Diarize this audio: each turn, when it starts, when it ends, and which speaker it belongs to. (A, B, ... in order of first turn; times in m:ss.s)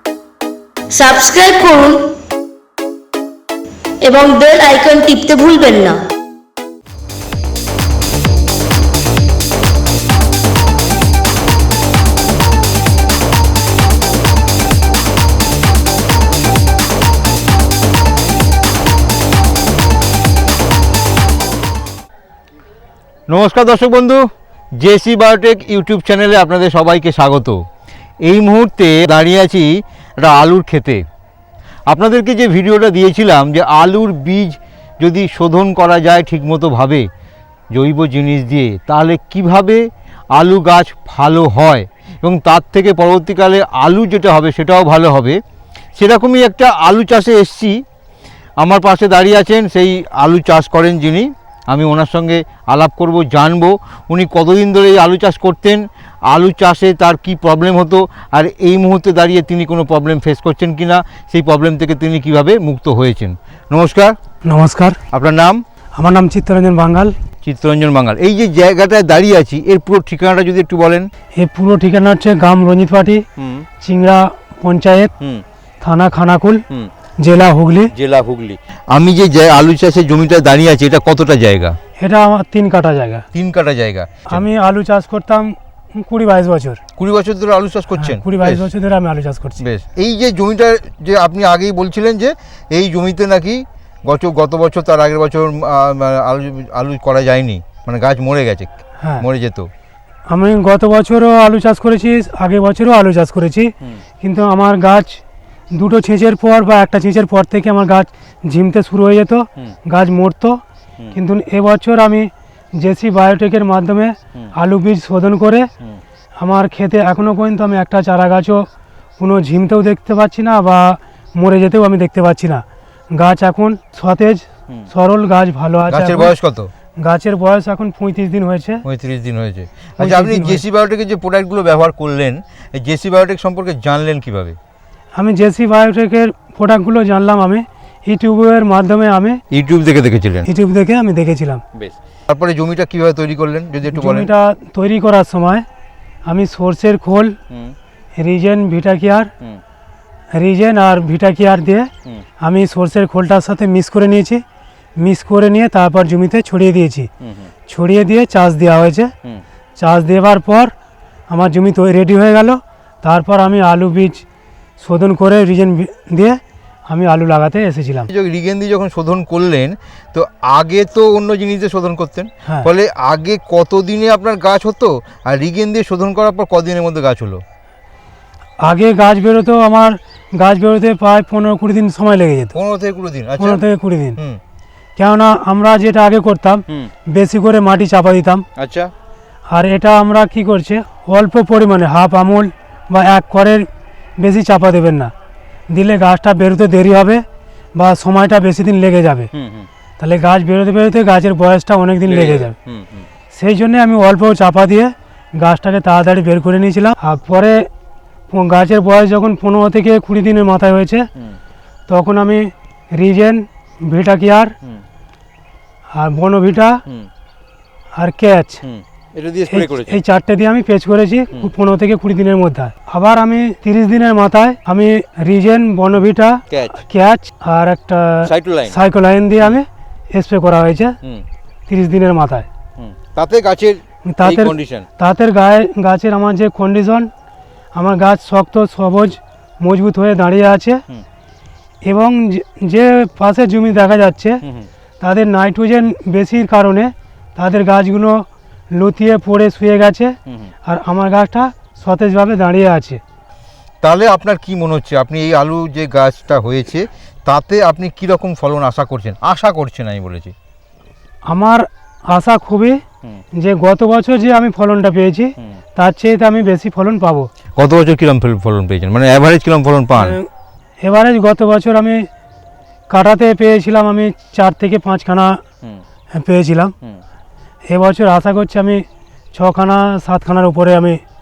0:00.9-0:02.1 A
0:04.0-0:06.0 A
0:23.3-0:24.2 B
0:24.8-0:27.6 B
0:28.2-0:31.0 B
0:31.9-0:37.0 B
0:37.7-0:45.4 B
0:46.0-0:47.8 B
0:48.6-1:04.2 B
1:04.5-1:05.0 C
1:05.1-1:05.6 B
1:06.0-1:07.2 C
1:07.4-1:11.1 B
1:11.4-1:13.2 C
1:13.4-1:13.6 B
1:13.8-1:15.1 C
1:15.8-1:16.6 C
1:17.2-1:17.9 C
1:17.9-1:21.8 B
1:22.0-1:23.3 C
1:23.3-1:24.5 B
1:24.3-1:26.8 C
1:27.0-1:28.7 B
1:28.0-1:29.6 C
1:29.6-1:39.7 B
1:39.0-1:39.3 C
1:40.3-1:43.7 C
1:44.2-1:45.2 C
1:45.8-1:50.6 C
1:51.1-1:55.7 C
1:56.4-1:58.7 C
1:59.2-2:02.6 C
2:03.2-2:06.3 C
2:05.9-2:06.7 B
2:07.0-2:08.8 C
2:08.8-2:14.6 B
2:10.0-2:10.6 C
2:15.2-2:19.4 C
2:19.5-2:20.5 B
2:20.4-2:21.6 C
2:21.8-2:24.3 B
2:23.9-2:25.6 C
2:26.3-2:27.4 C
2:28.2-2:29.3 C
2:30.4-2:31.9 C
2:32.4-2:34.4 C
2:35.0-2:37.1 C
2:37.2-2:37.5 B
2:37.7-2:39.1 C
2:39.8-2:40.7 C
2:41.3-2:44.2 C
2:44.8-2:48.1 C
2:48.1-2:57.4 B
2:58.6-3:02.6 C
3:02.5-3:03.6 B
3:03.4-3:04.2 C
3:05.0-3:08.4 C
3:08.6-3:08.9 B
3:09.5-3:13.7 C
3:14.2-3:15.1 C
3:15.7-3:17.2 C
3:17.8-3:19.3 C
3:19.3-3:19.7 B
3:20.0-3:22.6 C
3:22.1-3:23.1 B
3:23.3-3:27.7 C
3:28.3-3:31.1 C
3:31.9-3:34.6 C
3:36.0-3:36.8 C
3:38.0-3:38.6 C
3:38.6-3:40.0 B
3:39.5-3:51.0 C
3:46.5-3:46.8 B
3:48.2-3:48.8 B
3:51.7-3:52.5 C
3:52.8-3:54.9 B
3:54.1-3:57.1 C
3:57.8-4:00.8 C
4:01.9-4:04.4 C
4:05.0-4:13.0 C
4:13.8-4:20.3 B
4:21.3-4:22.8 C
4:23.4-4:27.3 C
4:27.6-4:30.2 B
4:30.0-4:30.3 C
4:30.8-4:32.1 C
4:32.9-4:35.4 C
4:36.2-4:36.7 C
4:37.7-4:41.0 C